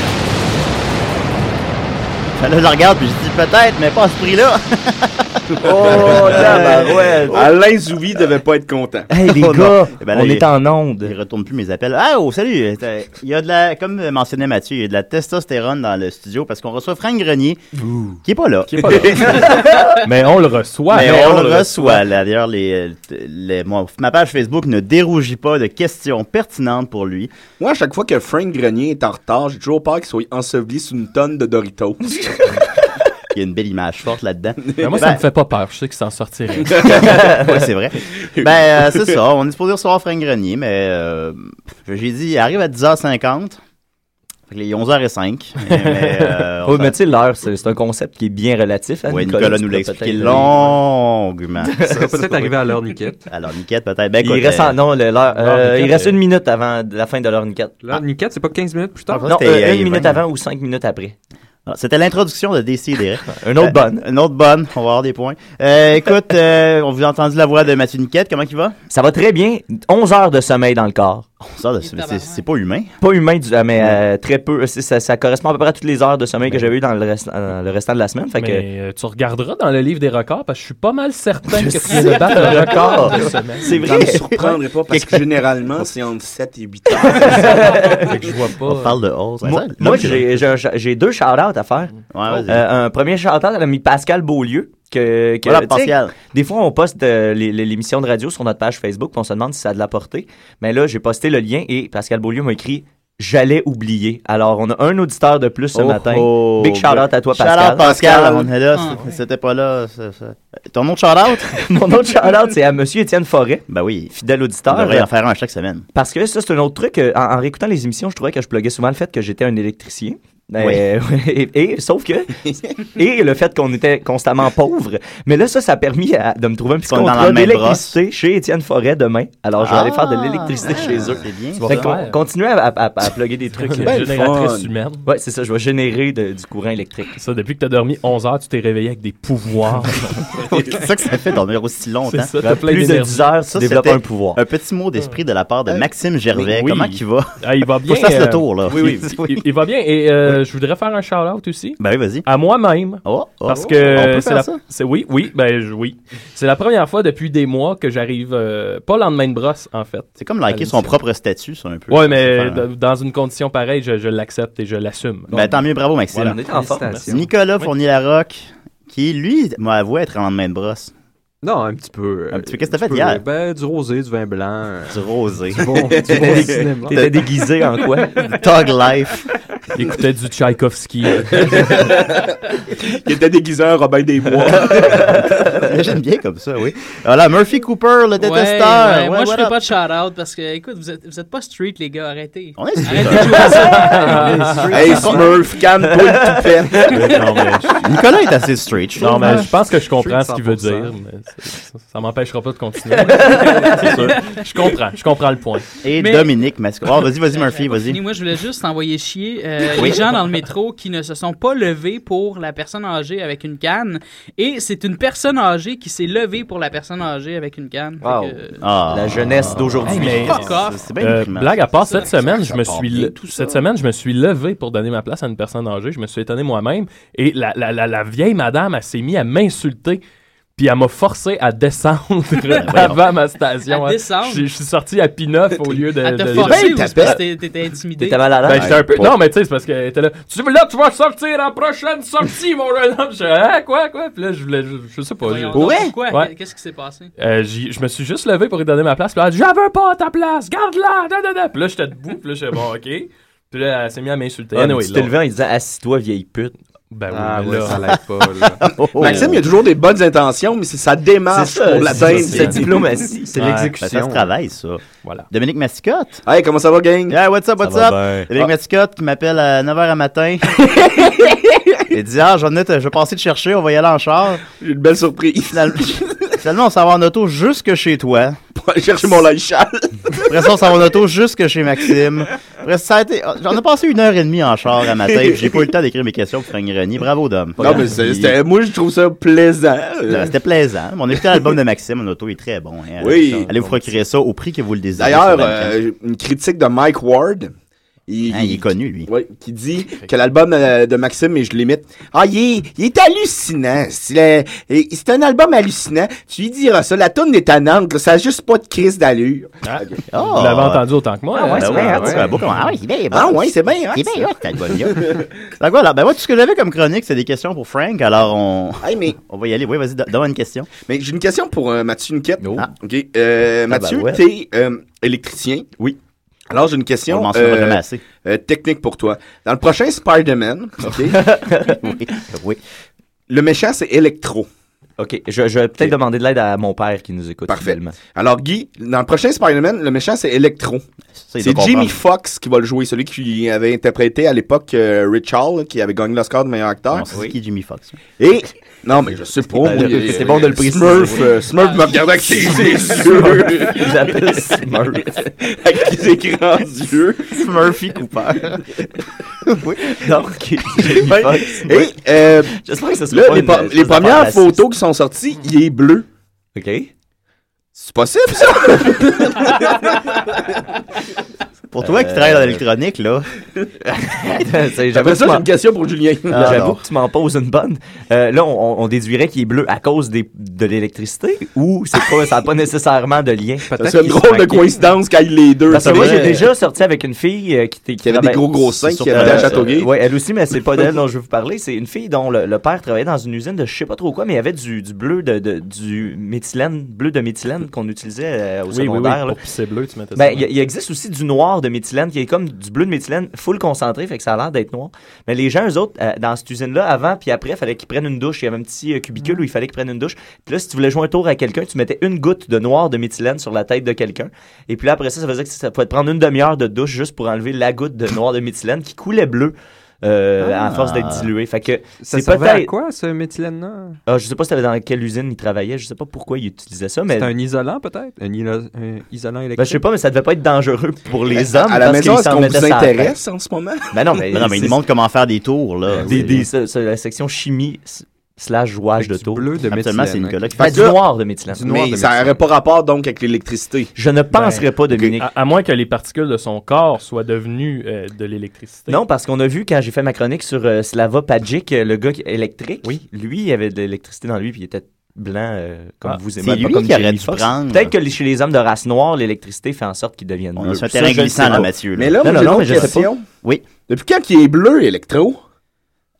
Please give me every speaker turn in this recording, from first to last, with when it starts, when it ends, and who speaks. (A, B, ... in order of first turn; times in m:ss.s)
0:02.4-0:07.1 A
0:05.6-0:09.1 B
0:05.6-0:07.5 C
0:09.1-0:11.1 C
0:09.2-0:17.6 A
0:18.2-0:19.5 A
0:18.7-0:22.0 D
0:19.5-0:19.8 C
0:20.9-0:27.3 A
0:27.6-0:32.6 B
0:33.3-0:35.2 A
0:34.6-0:35.0 B
0:34.8-0:37.1 D
0:36.6-0:37.5 B
0:36.8-0:43.6 A
0:38.2-0:39.2 B
0:44.5-0:47.0 A
0:45.7-0:46.4 D
0:46.6-0:50.5 C
0:49.1-0:51.7 A
0:51.6-0:52.5 C
0:51.7-0:53.2 E
0:53.3-0:54.8 A
0:54.2-0:58.0 C
0:55.3-0:56.2 D
0:57.8-0:59.3 E
0:59.1-1:00.2 A
0:59.3-1:01.2 C
1:01.6-1:08.8 A
1:03.3-1:04.0 C
1:08.9-1:11.2 C
1:11.4-1:12.9 A
1:11.8-1:12.4 F
1:13.0-1:18.6 C
1:18.4-1:23.7 D
1:22.4-1:25.4 A
1:23.6-1:24.2 C
1:23.7-1:27.7 B
1:27.0-1:28.1 C
1:27.2-1:29.0 D
1:28.6-1:30.2 A
1:29.4-1:31.9 C
1:29.8-1:30.2 D
1:32.1-1:32.6 A
1:32.5-1:48.2 C
1:35.4-1:36.1 A
1:45.7-1:51.6 A
1:47.8-1:48.5 B
1:48.8-1:49.2 D
1:51.5-1:55.1 C
1:53.7-1:54.1 A
1:54.7-1:55.9 A
1:55.9-2:13.9 C
2:06.9-2:08.0 A
2:09.6-2:11.9 A
2:10.6-2:11.2 B
2:11.5-2:12.2 D
2:13.6-2:15.0 D
2:13.8-2:14.7 B
2:15.0-2:17.1 C
2:17.2-2:20.2 D
2:20.5-2:20.8 B
2:20.5-2:22.3 A
2:22.1-2:23.2 D
2:22.4-2:24.4 C
2:23.5-2:29.4 A
2:26.3-2:41.0 D
2:28.7-2:29.0 C
2:31.8-2:32.2 A
2:33.0-2:34.6 A
2:40.2-2:42.6 A
2:41.9-2:45.4 D
2:45.3-2:46.4 A
2:46.1-2:47.0 C
2:46.4-2:47.2 E
2:47.1-2:50.9 A
2:51.4-2:54.9 E
2:52.3-2:53.2 A
2:54.9-2:57.2 A
2:55.5-2:57.1 E
2:55.9-2:56.7 B
2:56.2-2:58.3 C
2:58.2-2:59.3 A
2:59.7-3:01.9 D
3:01.3-3:05.3 B
3:04.7-3:05.3 C
3:05.2-3:09.6 A
3:08.2-3:14.3 F
3:12.6-3:15.3 A
3:13.1-3:15.2 D
3:14.6-3:17.0 B
3:16.9-3:17.7 D
3:17.8-3:19.4 A
3:19.0-3:25.7 D
3:19.0-3:20.9 E
3:23.8-3:24.1 A
3:25.8-3:28.0 A
3:26.0-3:26.4 F
3:27.3-3:38.6 F
3:29.7-3:30.0 A
3:38.0-3:40.4 C
3:38.6-3:41.6 A
3:39.8-3:50.0 D
3:40.0-3:40.9 F
3:42.0-3:43.6 B
3:50.6-3:57.2 D
3:52.5-3:52.9 F
3:52.6-3:53.0 A
3:53.7-3:54.4 F
3:56.0-3:58.3 F
3:56.3-3:57.2 B
3:58.0-3:58.8 C
3:58.4-4:06.3 D
3:58.5-3:59.2 B
4:05.2-4:07.1 F
4:05.6-4:05.9 B
4:07.2-4:15.1 D
4:14.5-4:16.5 C
4:16.9-4:17.9 D
4:17.1-4:18.6 E
4:18.4-4:19.4 A
4:18.9-4:22.8 B
4:21.3-4:23.6 C
4:22.1-4:22.6 D
4:23.3-4:24.3 E
4:23.4-4:23.7 D
4:23.8-4:26.2 A
4:26.2-4:27.2 B
4:27.1-4:30.7 A
4:27.6-4:28.3 C
4:31.2-4:31.6 B
4:31.9-4:34.4 A
4:34.6-4:36.3 B
4:35.5-4:38.4 A
4:38.6-4:40.4 B
4:40.3-4:48.0 A
4:45.1-4:45.6 B
4:47.6-4:50.3 B
4:47.6-4:48.3 C
4:50.1-4:55.8 A
4:53.0-4:53.6 B
4:53.3-4:54.0 D
4:55.0-4:57.5 B
4:58.1-5:10.0 B
4:58.3-4:59.1 A
5:09.6-5:12.3 D
5:10.1-5:10.8 A
5:11.4-5:12.2 C
5:11.5-5:20.7 A
5:11.8-5:12.3 E
5:13.1-5:15.3 B
5:18.8-5:19.2 B
5:20.8-5:25.7 B
5:22.4-5:22.7 C
5:23.7-5:24.2 C
5:26.5-5:31.3 B
5:27.1-5:28.0 A
5:31.1-5:31.8 C
5:31.8-5:32.6 A
5:33.3-5:34.5 B
5:35.0-5:38.0 C
5:37.5-5:40.8 B
5:41.2-5:42.0 A
5:41.4-5:47.2 B
5:46.9-5:48.0 A
5:48.2-5:57.4 B
5:49.6-5:51.5 C
5:52.3-5:55.2 C
5:57.3-5:58.7 A
5:59.4-6:00.0 A
5:59.9-6:04.6 C
6:00.8-6:01.5 A
6:01.6-6:02.6 B
6:03.1-6:06.0 B
6:06.5-6:06.9 C
6:07.8-6:10.2 B
6:11.7-6:13.3 A
6:11.8-6:12.6 C
6:14.1-6:15.4 C
6:14.9-6:16.7 B
6:16.3-6:16.8 A
6:16.3-6:23.7 C
6:23.7-6:24.8 E
6:23.8-6:26.5 B
6:25.7-6:28.4 C
6:25.7-6:26.4 A
6:28.0-6:29.9 B
6:28.8-6:29.7 A
6:29.1-6:39.4 C
6:38.7-6:40.5 D
6:40.2-7:02.7 C
7:00.4-7:01.3 A
7:02.0-7:04.0 E
7:04.1-7:07.3 C
7:07.1-7:09.8 E
7:09.6-7:13.2 C
7:11.4-7:13.9 B
7:13.9-7:14.8 C
7:14.3-7:16.5 A
7:16.0-7:19.5 C
7:19.0-7:20.5 E
7:19.7-7:20.8 A
7:20.6-7:21.6 C
7:20.6-7:21.0 B
7:21.5-7:22.3 E
7:21.6-7:23.9 B
7:24.0-7:25.2 C
7:24.3-7:24.6 D
7:25.2-7:29.0 D
7:28.9-7:43.1 C
7:36.4-7:37.9 A
7:40.6-7:43.6 A
7:41.9-7:43.2 B
7:43.9-7:45.4 B